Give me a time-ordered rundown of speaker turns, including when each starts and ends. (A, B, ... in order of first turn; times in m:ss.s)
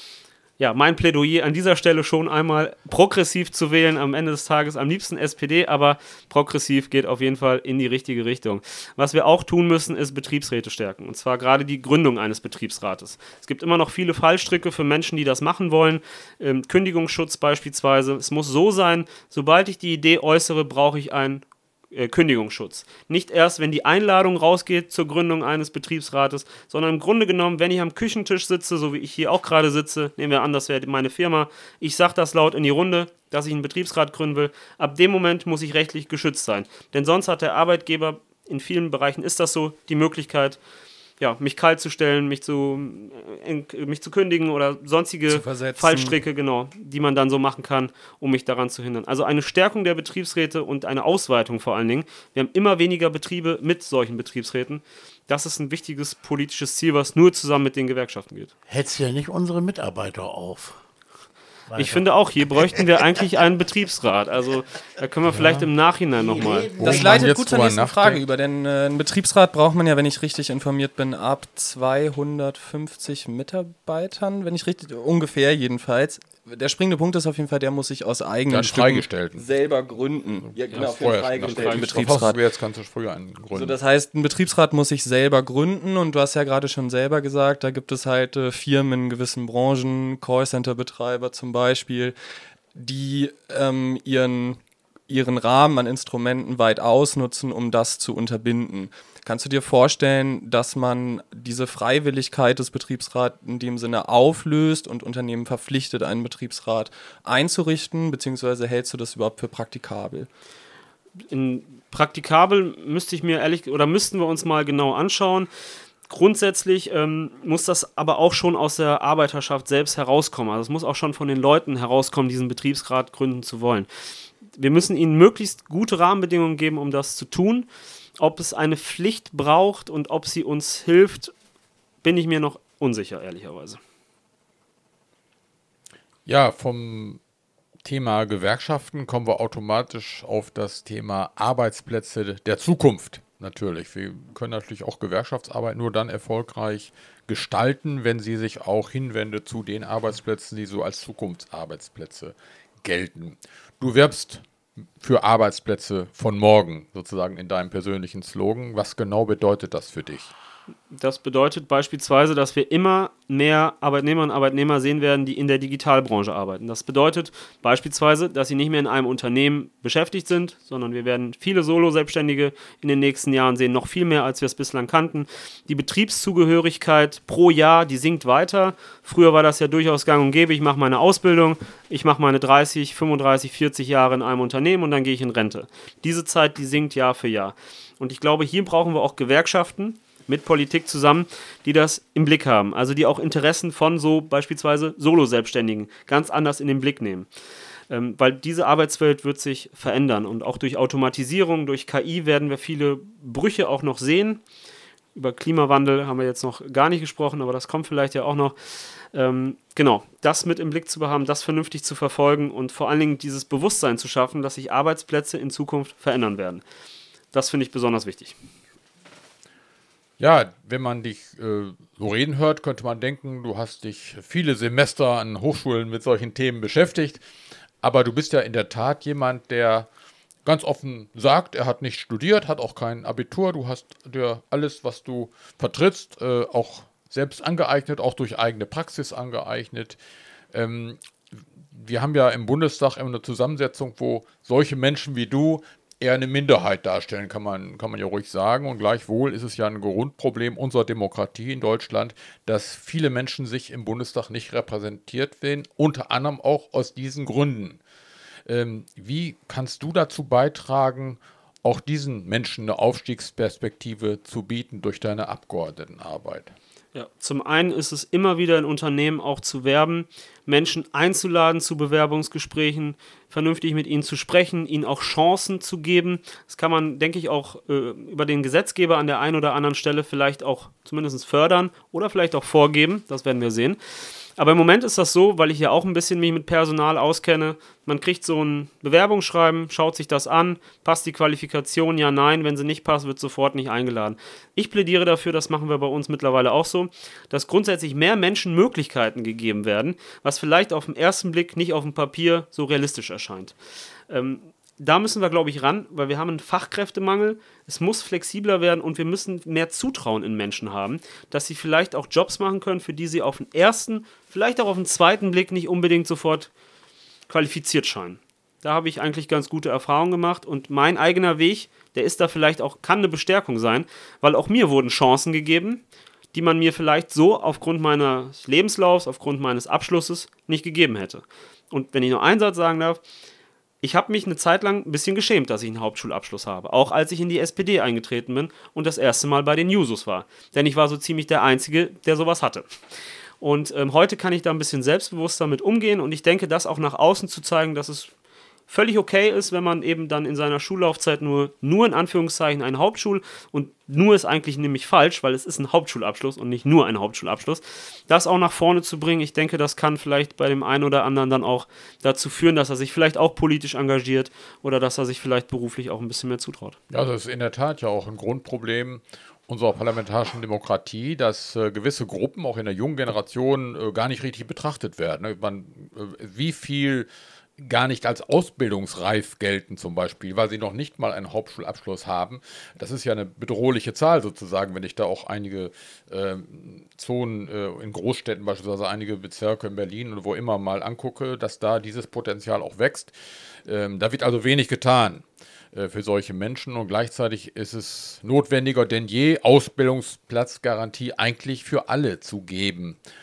0:00.6-0:40.6 A
0:41.2-0:58.5 A
0:45.3-0:46.2 B
0:58.7-1:00.8 C
1:01.7-1:02.1 C
1:01.8-1:06.7 A
1:05.3-1:07.3 C
1:06.8-1:08.2 D
1:06.8-1:22.4 B
1:18.5-1:19.5 D
1:20.5-1:23.8 D
1:21.6-1:21.9 A
1:23.5-1:32.1 B
1:32.7-1:50.3 B
1:51.3-1:55.5 A
1:56.1-2:03.9 A
2:04.5-2:07.7 A
2:08.2-2:11.3 A
2:12.0-2:13.8 A
2:16.2-2:17.2 D
2:17.8-2:34.4 D
2:35.0-2:40.3 D
2:40.9-3:17.3 A
3:17.9-3:24.4 A
3:25.1-3:28.5 A
3:29.1-3:36.6 A
3:37.3-3:38.4 A
3:40.2-3:47.2 D
3:47.8-3:49.9 D
3:50.4-4:00.0 D
4:00.5-4:01.0 D
4:01.7-4:17.8 D
4:18.4-4:26.5 D
4:26.9-4:43.8 A
4:44.4-5:03.5 A
5:04.1-5:16.5 A
5:17.3-5:25.8 A
5:26.3-5:33.0 A
5:33.8-5:42.6 A
5:43.4-5:48.1 A
5:48.7-6:06.8 A
6:06.9-6:33.1 D
6:33.6-6:43.0 D